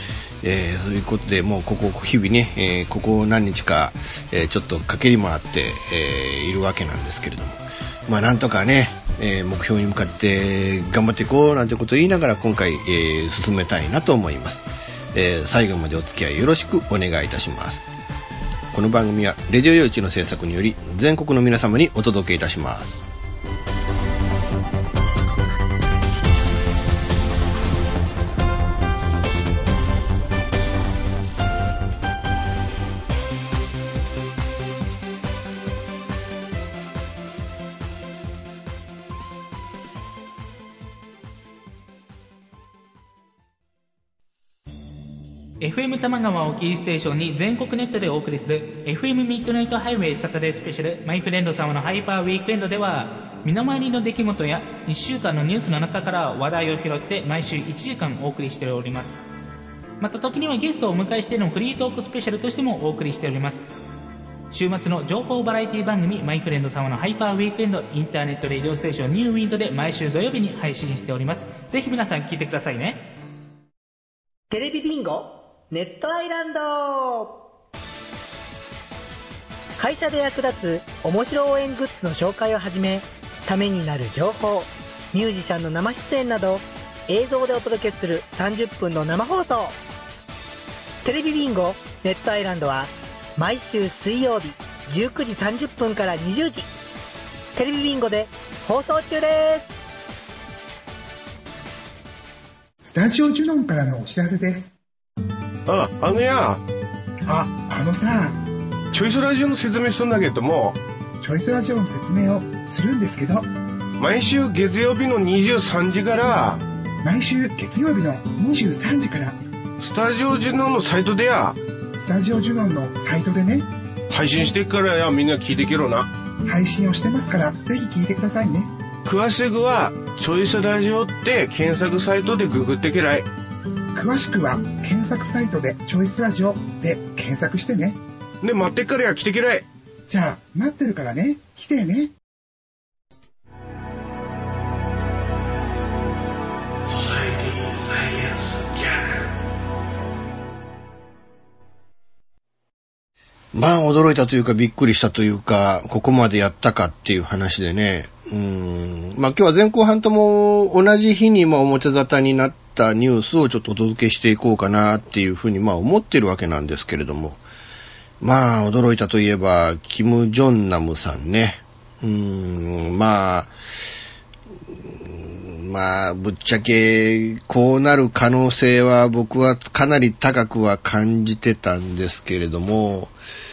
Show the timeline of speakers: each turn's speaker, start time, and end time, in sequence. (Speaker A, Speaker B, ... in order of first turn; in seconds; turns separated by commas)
Speaker A: 0.4-17.8, Speaker A: 18.7-23.0, Speaker B: 45.6-59.2, Speaker B: 60.0-63.7, Speaker B: 64.5-73.0, Speaker C: 74.5-77.4, Speaker C: 79.8-89.8, Speaker C: 91.0-96.7, Speaker C: 97.5-99.8, Speaker D: 102.8-104.8, Speaker E: 105.7-106.6, Speaker D: 107.2-108.4, Speaker E: 108.9-110.8, Speaker D: 111.2-113.5, Speaker E: 114.0-116.6, Speaker D: 117.0-119.4, Speaker E: 119.8-121.6, Speaker D: 122.0-123.7, Speaker E: 124.1-126.1, Speaker D: 126.4-128.7, Speaker E: 129.0-133.3, Speaker D: 133.9-138.0, Speaker E: 138.4-139.7, Speaker D: 140.1-142.1, Speaker E: 146.9-149.3, Speaker A: 153.5-167.4, Speaker A: 168.2-173.5, Speaker A: 175.0-183.1